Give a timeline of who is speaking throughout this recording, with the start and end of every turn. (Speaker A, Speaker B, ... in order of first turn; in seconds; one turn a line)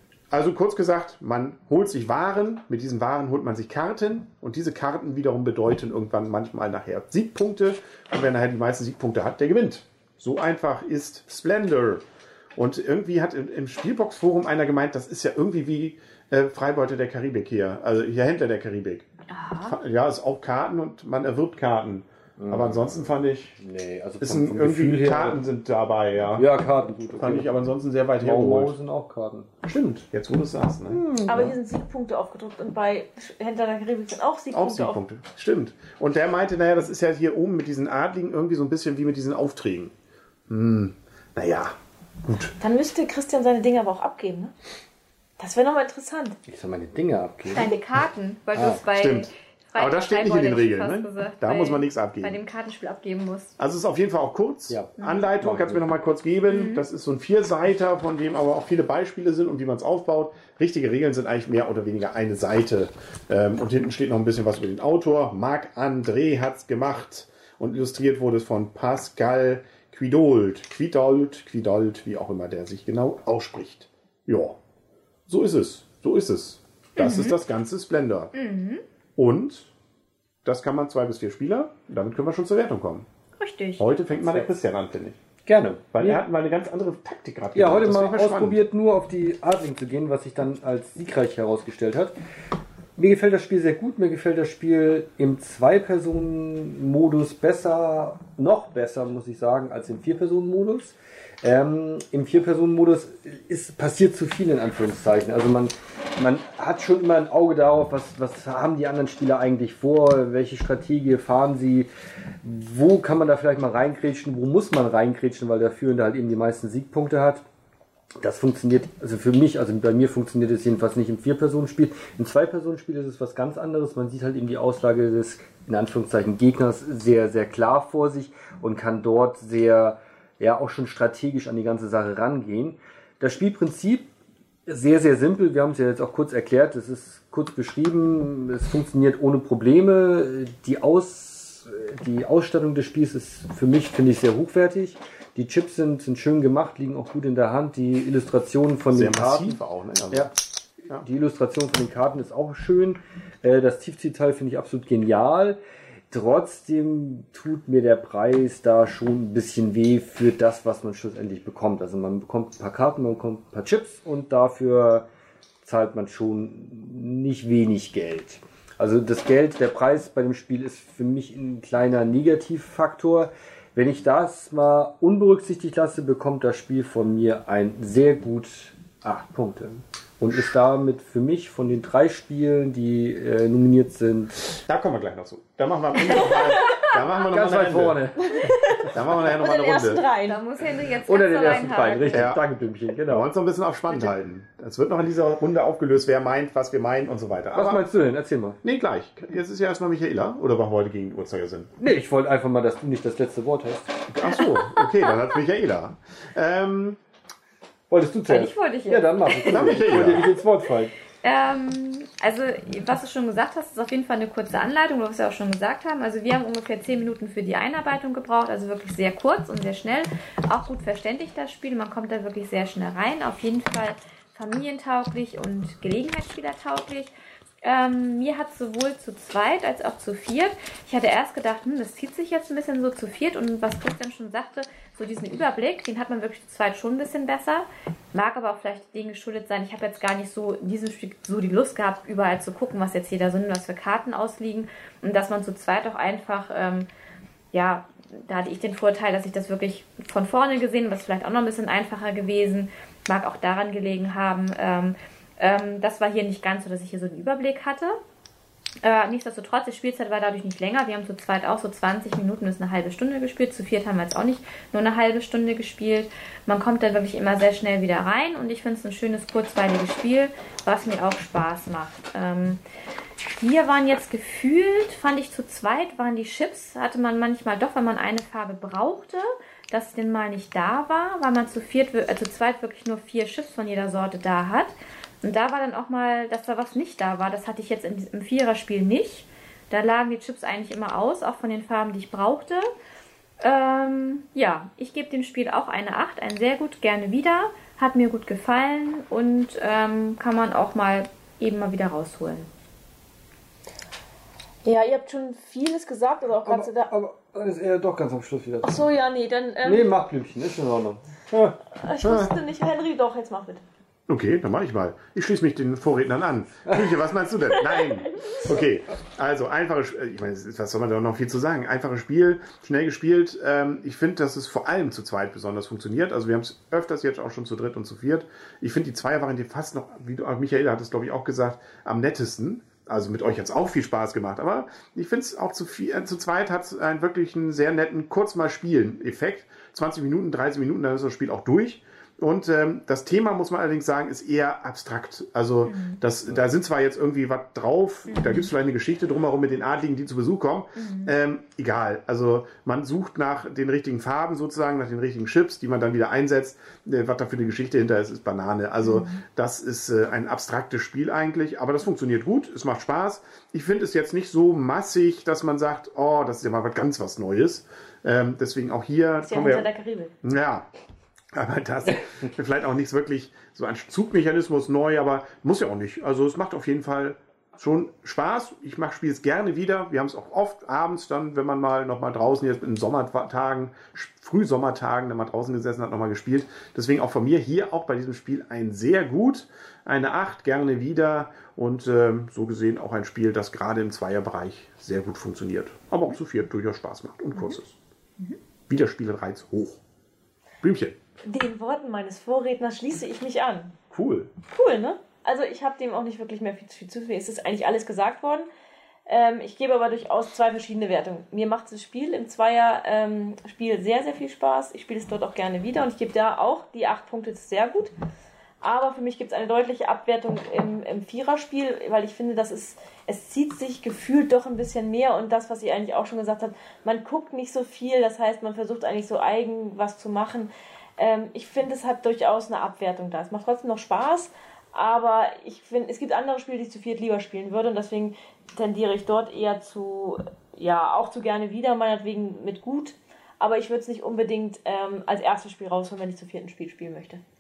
Speaker A: 0.3-12.0
Speaker A: 12.6-19.1
Speaker B: 19.3-19.8
Speaker A: 19.6-23.6
Speaker C: 22.4-25.4
Speaker A: 24.2-26.5
Speaker C: 26.4-27.7
Speaker A: 27.2-28.8
Speaker C: 28.2-29.5
Speaker A: 29.6-31.0
Speaker C: 30.9-31.6
Speaker D: 31.3-35.0
Speaker A: 34.5-39.9
Speaker A: 40.5-42.5
Speaker D: 42.6-44.5
Speaker D: 45.4-46.4
Speaker C: 46.5-47.7
Speaker B: 47.5-53.6
Speaker C: 48.5-48.8
Speaker A: 48.9-52.4
Speaker A: 53.6-74.6
Speaker C: 54.7-55.9
Speaker B: 55.0-55.3
Speaker B: 56.5-56.9
Speaker A: 75.3-78.3
Speaker B: 77.0-77.4
Speaker B: 78.3-78.8
Speaker A: 79.2-79.7
Speaker A: 80.4-83.1
Speaker B: 83.4-83.9
Speaker A: 83.8-85.2
Speaker C: 85.5-86.2
Speaker A: 85.9-88.6
Speaker C: 87.5-92.1
Speaker C: 93.0-111.9
Speaker C: 112.4-117.4
Speaker C: 118.2-134.1
Speaker C: 134.7-149.6
Speaker A: 148.9-150.3
Speaker C: 150.9-155.6
Speaker C: 156.1-165.1
Speaker C: 165.6-184.4
Speaker A: 184.7-188.0
Speaker D: 186.1-186.9
Speaker C: 187.1-189.3
Speaker D: 188.4-190.4
Speaker A: 188.9-190.0
Speaker B: 190.3-192.3
Speaker C: 191.0-193.3
Speaker A: 192.1-192.4
Speaker A: 193.1-197.8
Speaker C: 197.5-198.6
Speaker A: 198.6-201.7
Speaker C: 201.8-204.1
Speaker A: 204.1-207.0
Speaker C: 207.9-210.9
Speaker B: 208.3-209.9
Speaker A: 209.4-210.3
Speaker B: 211.2-246.9
Speaker B: 247.5-258.0
Speaker B: 258.8-272.6
Speaker B: 273.4-292.7
Speaker B: 293.4-302.5
Speaker D: 304.6-306.9
Speaker C: 306.4-308.8
Speaker D: 308.6-310.0
Speaker C: 309.6-311.6
Speaker D: 311.8-313.6
Speaker A: 312.0-312.4
Speaker A: 314.1-369.7
Speaker B: 345.6-346.0
Speaker B: 348.1-348.5
Speaker B: 350.8-351.1
Speaker B: 358.8-359.2
Speaker D: 369.2-370.1
Speaker A: 370.2-370.7
Speaker A: 371.3-397.8
Speaker A: 398.7-399.8
Speaker A: 400.6-401.0
Speaker D: 401.2-403.8
Speaker A: 403.9-404.3
Speaker D: 404.5-408.5
Speaker D: 409.1-417.9
Speaker D: 418.6-447.2